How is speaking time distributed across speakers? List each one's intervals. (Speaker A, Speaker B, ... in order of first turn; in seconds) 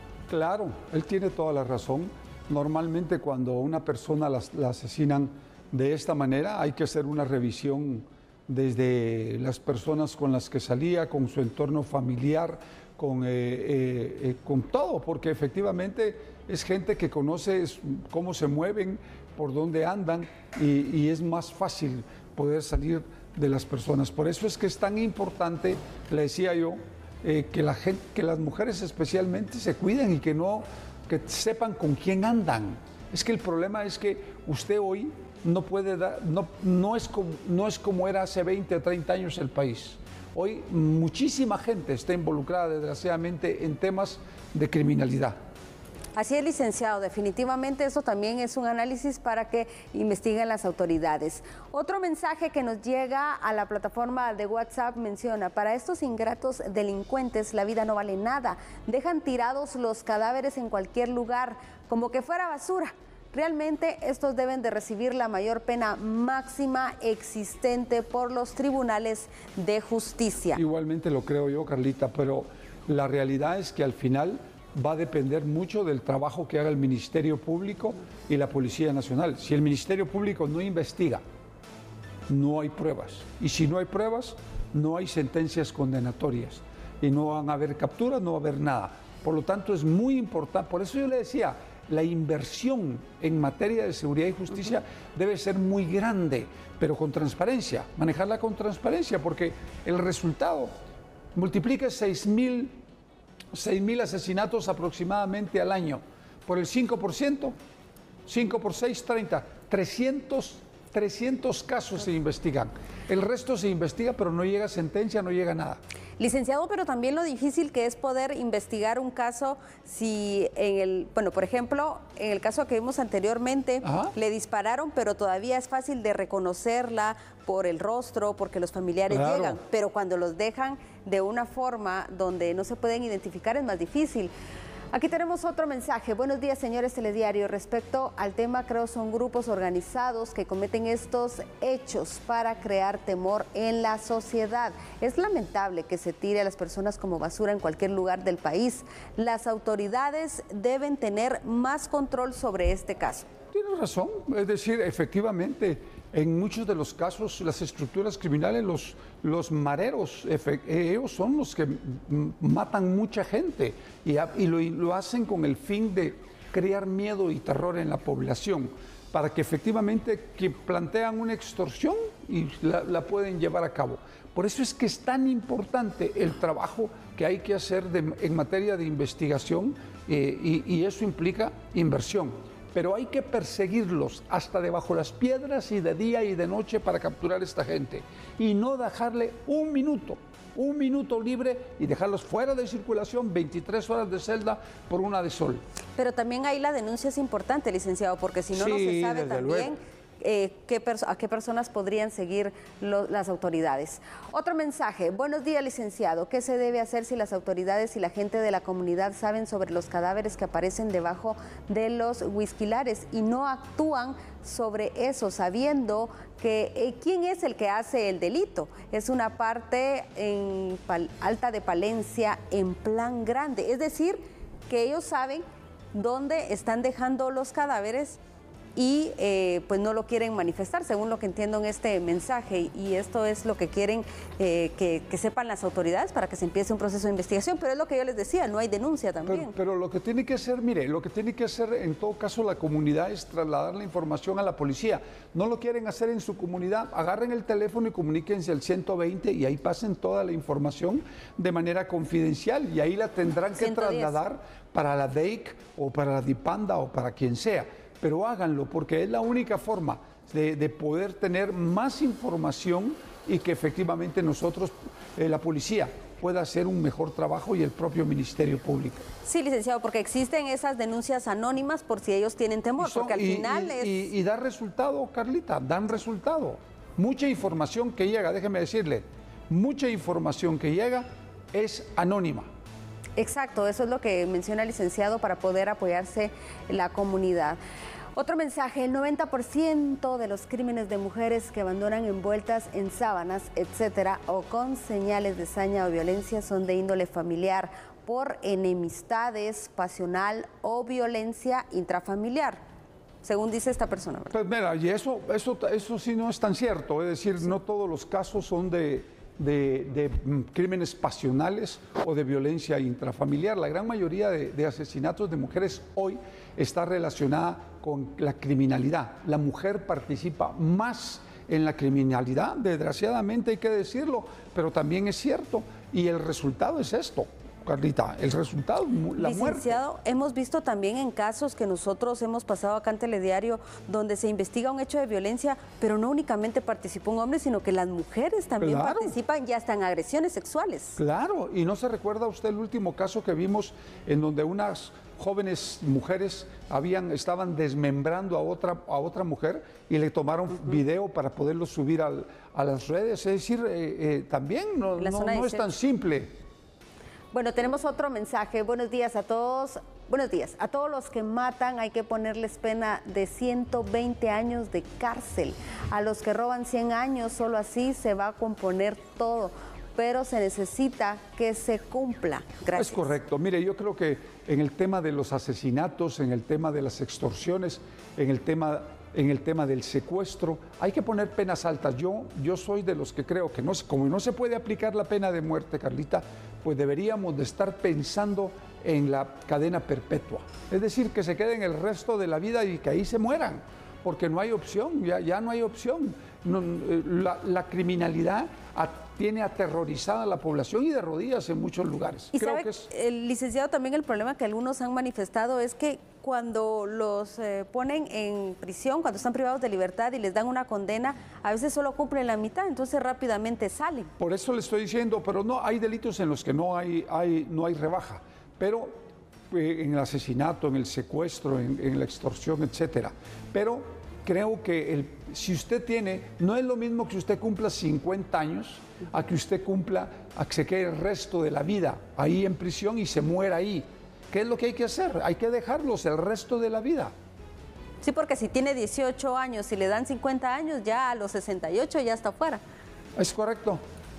Speaker A: 0.3-45.4, 70.5-81.2, 82.3-100.7, 101.3-102.8, 103.5-107.5, 108.3-115.8, 123.8-124.1, 129.1-129.6, 153.5-195.6, 198.5-199.7, 239.2-269.1, 272.8-282.5, 304.3-329.8, 338.6-339.1, 341.0-356.3, 372.8-402.9, 414.2-418.9, 419.5-437.1, 443.2-443.8
Speaker B: 46.2-70.6, 116.2-134.3, 134.9-153.3, 196.0-228.2, 228.8-239.5, 253.5-254.2, 269.2-274.1, 283.2-287.6, 288.1-302.6, 303.2-304.3, 329.2-341.0, 355.0-355.7, 357.3-373.1, 402.3-414.1, 438.0-442.6